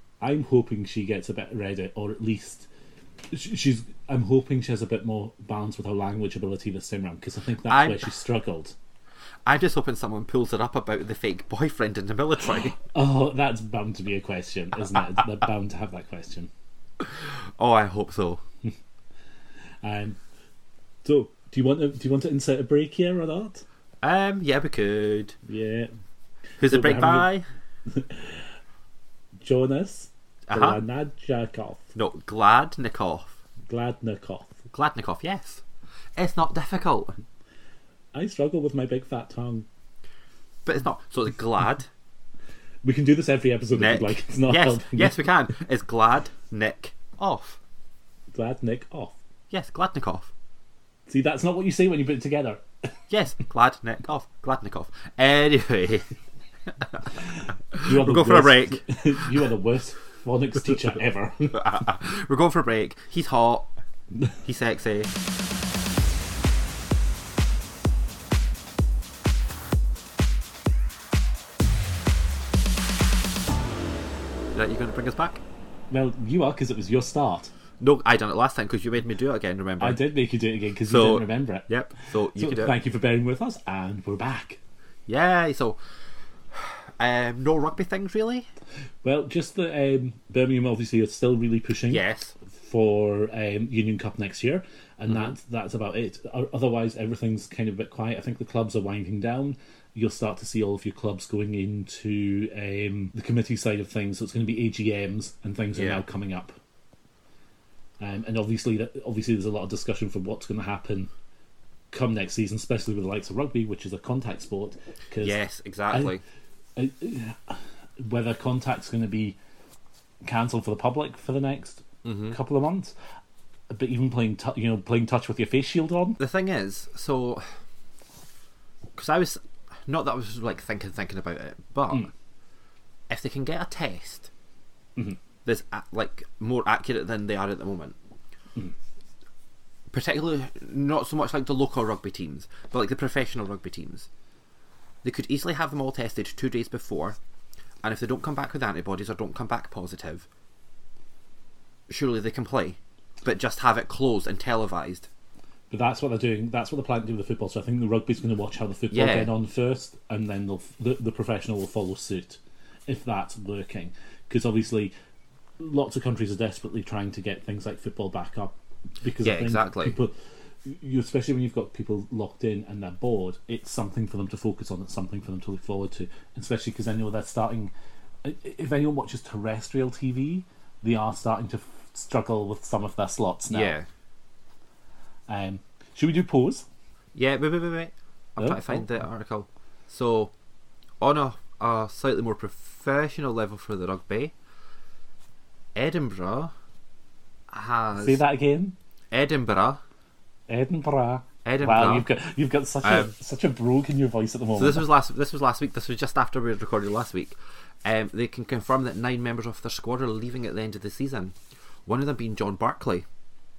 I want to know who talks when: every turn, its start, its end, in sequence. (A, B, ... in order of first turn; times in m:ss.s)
0:00.2-0:02.7 A
0:03.3-0:08.7 A
0:07.6-0:08.1 B
0:09.4-0:12.8 B
0:12.8-0:16.5 A
0:17.0-0:18.4 B
0:19.8-0:20.2 A
0:21.0-0:23.6 A
0:24.0-0:25.4 B
0:25.5-0:25.9 A
0:26.6-0:27.4 B
0:26.6-0:27.3 A
0:27.9-0:28.5 A
0:29.4-0:31.9 A
0:30.5-0:30.8 B
0:31.9-0:33.4 B
0:33.7-0:34.6 A
0:34.7-0:35.6 B
0:36.2-0:37.1 B
0:38.1-0:39.6 A
0:40.6-0:41.9 B
0:42.8-0:45.3 A
0:43.7-0:47.6 B
0:48.3-0:49.2 A
0:49.5-0:50.3 B
0:51.1-0:52.6 A
0:53.1-0:56.0 B
0:56.8-0:57.0 B
0:57.7-0:59.3 B
0:57.8-1:01.8 A
1:01.5-1:03.7 B
1:04.4-1:05.1 B
1:14.5-1:15.4 B
1:15.9-1:17.5 A
1:17.8-1:20.0 B
1:19.8-1:24.6 A
1:20.8-1:22.7 B
1:25.1-1:25.8 B
1:26.5-1:28.5 B
1:29.0-1:46.6 A
1:31.9-1:32.3 B
1:35.1-1:35.3 B
1:45.7-1:46.0 B
1:48.0-1:51.1 A
1:51.9-1:56.1 A
1:55.2-1:56.2 B
1:56.8-1:59.4 A
2:00.2-2:02.9 A
2:02.0-2:02.4 B
2:03.7-2:06.2 A
2:06.2-2:07.4 B
2:09.0-2:12.1 B
2:13.1-2:14.3 B
2:15.4-2:18.0 B
2:19.9-2:24.1 B
2:25.0-2:27.2 B
2:27.8-2:30.3 B
2:31.9-2:35.1 B
2:35.7-2:44.9 A
2:38.9-2:39.3 B
2:45.6-2:57.7 A
2:49.2-2:50.0 B
2:58.2-3:03.8 A
3:03.5-3:03.8 B
3:05.3-3:06.6 A
3:07.1-3:10.3 B
3:08.4-3:08.8 A
3:11.0-3:14.3 B
3:15.7-3:16.5 B
3:17.5-3:18.2 B
3:18.0-3:18.8 A
3:19.1-3:19.8 B
3:20.5-3:24.9 A
3:21.4-3:22.1 B
3:22.8-3:23.1 B
3:24.5-3:33.0 B